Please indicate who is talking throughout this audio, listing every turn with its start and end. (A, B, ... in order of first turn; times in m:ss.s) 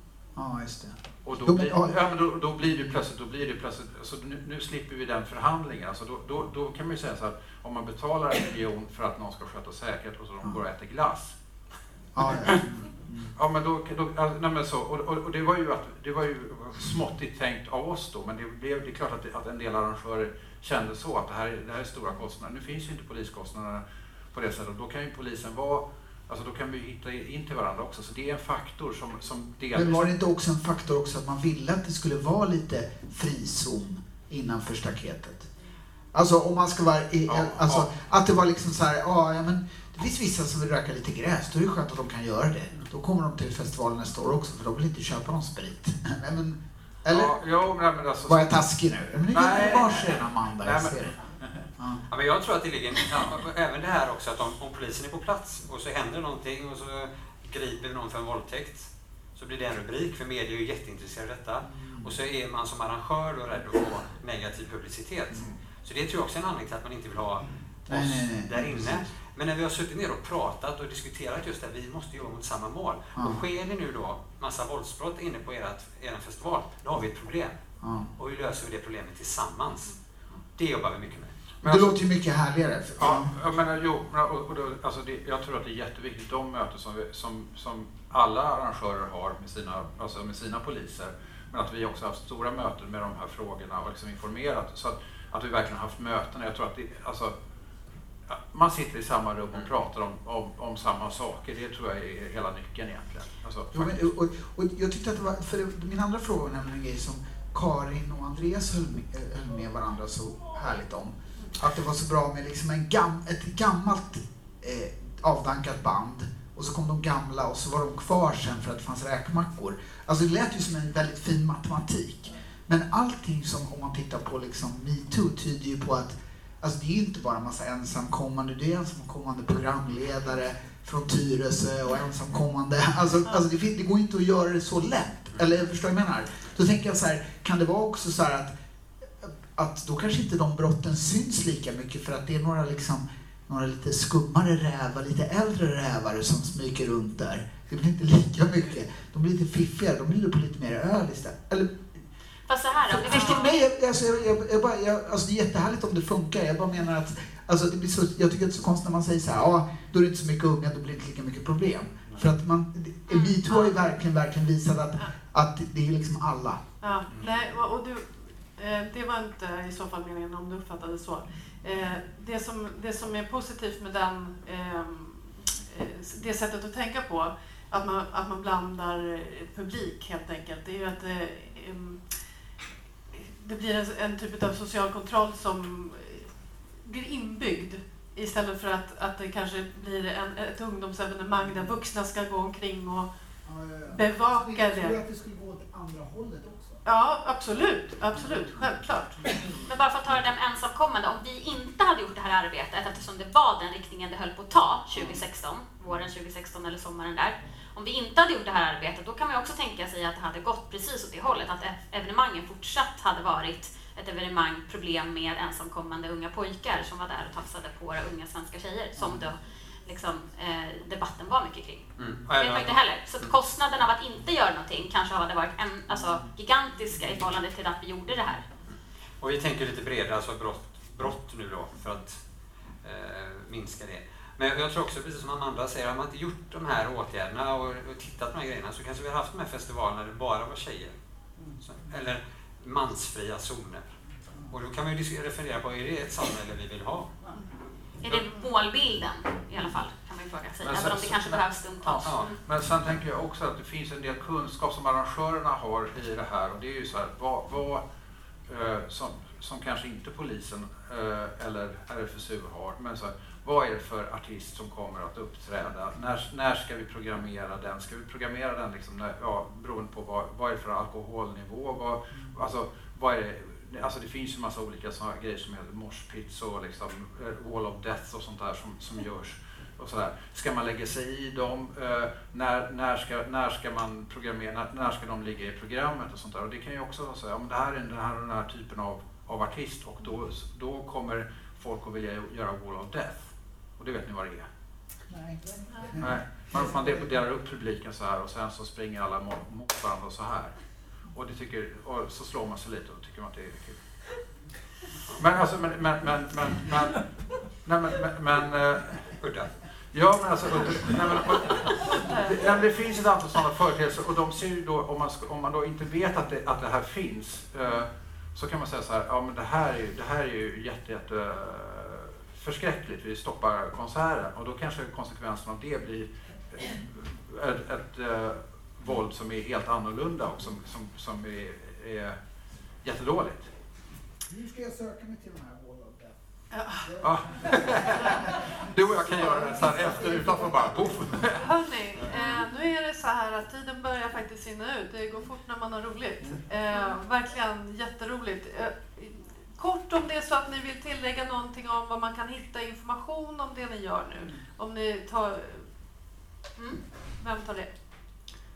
0:00.4-0:02.0 A
0:01.2-0:11.4 B
0:02.6-0:03.0 A
0:12.2-0:13.3 A
0:12.2-0:12.6 B
0:13.4-0:30.2 B
0:29.7-0:35.5 A
0:36.1-0:47.4 A
0:37.3-0:37.9 B
0:47.1-0:51.7 B
0:48.3-0:51.2 A
0:51.8-0:52.0 A
0:52.1-1:17.6 C
1:01.6-1:02.2 A
1:07.9-1:09.0 A
1:13.2-1:13.4 A
1:17.8-1:18.1 A
1:18.2-1:20.0 C
1:20.6-1:21.6 C
1:21.6-1:23.4 A
1:23.0-1:37.3 B
1:38.3-1:44.1 B
1:43.7-2:18.6 A
2:19.2-2:32.0 A
2:32.5-2:33.6 D
2:32.8-2:46.7 A
2:43.1-2:43.4 D
2:43.5-2:43.8 E
2:46.8-3:02.0 E
3:03.1-3:13.1 E
3:13.5-3:16.8 A
3:13.9-3:15.0 E
3:16.8-3:19.2 E
3:19.7-3:48.4 D
3:42.0-3:42.8 C
3:49.2-3:52.2 C
3:52.8-4:01.0 C
4:01.6-4:03.9 C
4:04.5-4:07.1 C
4:08.0-4:12.4 D
4:08.1-4:08.5 E
4:10.6-4:17.8 B
4:12.0-4:12.3 C
4:18.5-4:54.5 B
4:55.1-4:57.1 A
4:56.0-5:00.6 B
5:01.1-5:03.8 B
5:05.2-5:09.2 B
5:09.2-5:09.5 C
5:09.9-5:32.2 B
5:11.8-5:12.5 E
5:32.8-5:33.5 B
5:34.3-5:36.1 A
5:36.5-5:36.9 E
5:36.9-5:38.1 A
5:37.0-5:42.4 B
5:39.2-5:40.5 A
5:41.4-5:55.7 E
5:57.2-5:57.7 E